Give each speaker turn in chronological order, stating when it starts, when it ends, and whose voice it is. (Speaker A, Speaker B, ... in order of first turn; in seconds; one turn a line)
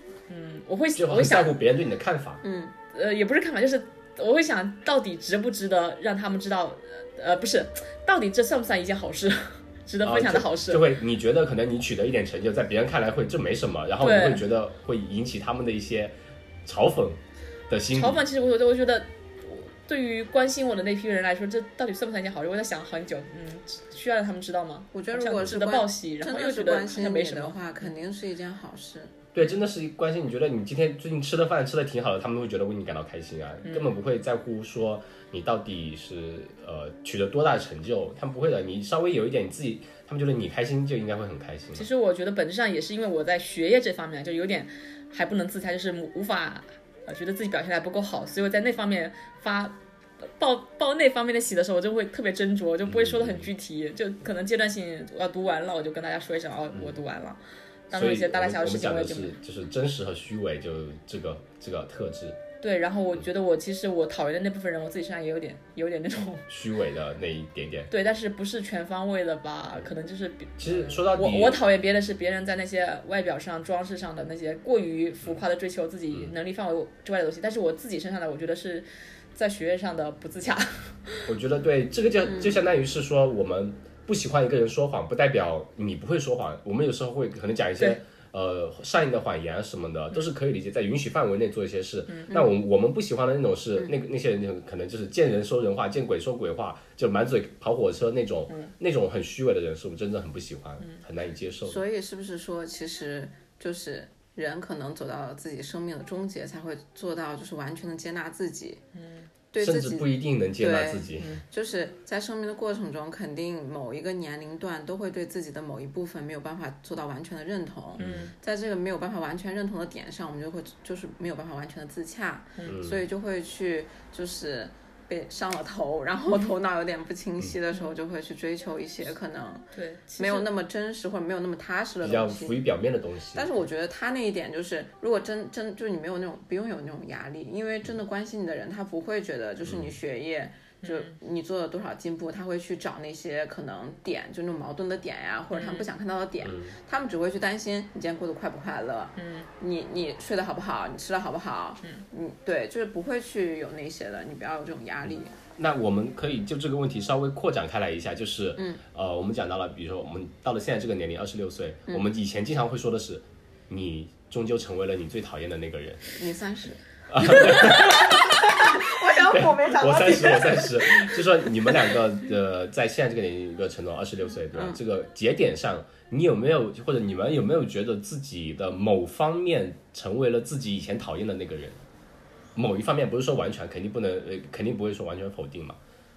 Speaker A: 0.3-1.6
Speaker B: 1.0-2.4
Speaker C: 2.4-2.8
Speaker A: 2.9-11.0
Speaker B: 10.0-16.1
Speaker A: 14.0-14.4
Speaker B: 16.7-17.2
Speaker B: 17.7-18.2
Speaker A: 17.9-27.6
Speaker C: 24.9-29.1
Speaker B: 29.3-41.9
Speaker A: 33.7-33.9
Speaker A: 41.8-59.3
Speaker B: 52.9-53.5
Speaker B: 56.7-57.0
Speaker B: 57.9-62.4
Speaker A: 62.6-66.5
Speaker B: 66.5-67.9
Speaker A: 67.9-81.3
Speaker B: 70.6-71.6
Speaker B: 81.3-101.8
Speaker C: 101.7-108.8
Speaker A: 109.0-109.3
Speaker C: 109.5-129.7
Speaker B: 109.6-111.4
Speaker B: 118.0-118.3
Speaker A: 118.0-118.3
Speaker B: 122.7-123.0
Speaker A: 129.7-130.5
Speaker C: 130.2-132.7
Speaker B: 132.0-133.5
Speaker C: 133.3-155.3
Speaker B: 139.7-139.9
Speaker A: 140.8-141.2
Speaker A: 145.5-145.9
Speaker B: 146.4-146.8
Speaker A: 149.2-149.5
Speaker B: 155.6-166.1
Speaker C: 166.2-171.9
Speaker B: 167.1-181.8
Speaker C: 174.5-174.8
Speaker B: 182.6-185.8